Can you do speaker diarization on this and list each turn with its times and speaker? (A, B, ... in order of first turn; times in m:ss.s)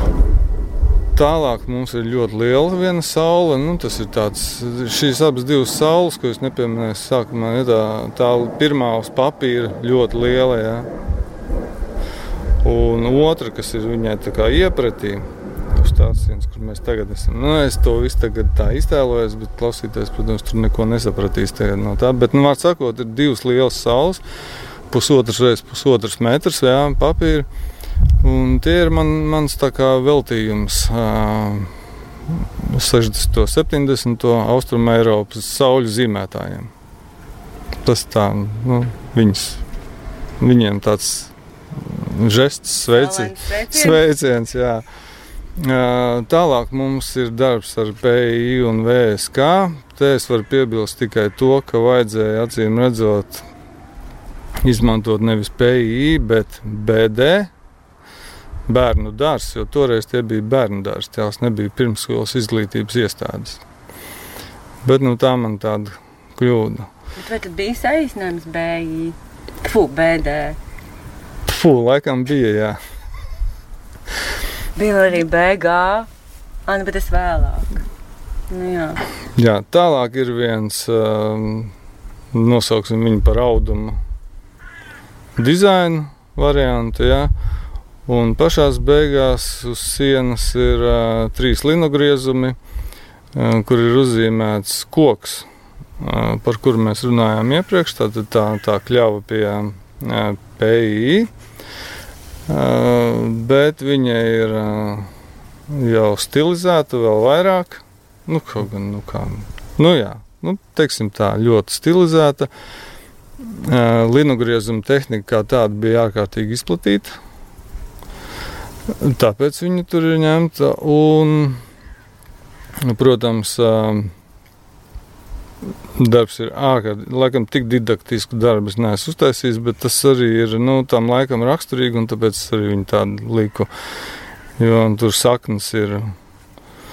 0:01.2-0:10.9 A
0:12.6-0:24.2 A
0:24.9-0:27.5 A
0:28.2-0:31.7 A
0:32.3-0:36.7 A
0:37.8-0:39.6 A
0:40.4-0:44.8 A
0:42.8-0:44.0 B
0:45.6-0:53.5 A
0:54.6-0:57.5 A
0:58.7-1:03.6 A
1:04.8-1:06.9 A
1:07.2-1:10.6 B
1:11.5-1:12.8 A
1:14.8-1:16.1 B
1:16.7-1:17.8 B
1:18.5-1:19.0 B
1:19.4-1:21.7 A
1:22.3-1:24.0 A
1:25.4-1:27.3 A
1:28.1-1:32.6 A
1:33.3-1:35.5 A
1:36.0-1:41.3 A
1:42.5-1:45.1 A
1:45.7-1:52.5 A
1:53.4-1:57.2 A
1:59.0-2:01.6 A
2:02.8-2:04.1 A
2:06.0-2:13.7 A
2:14.6-2:16.1 A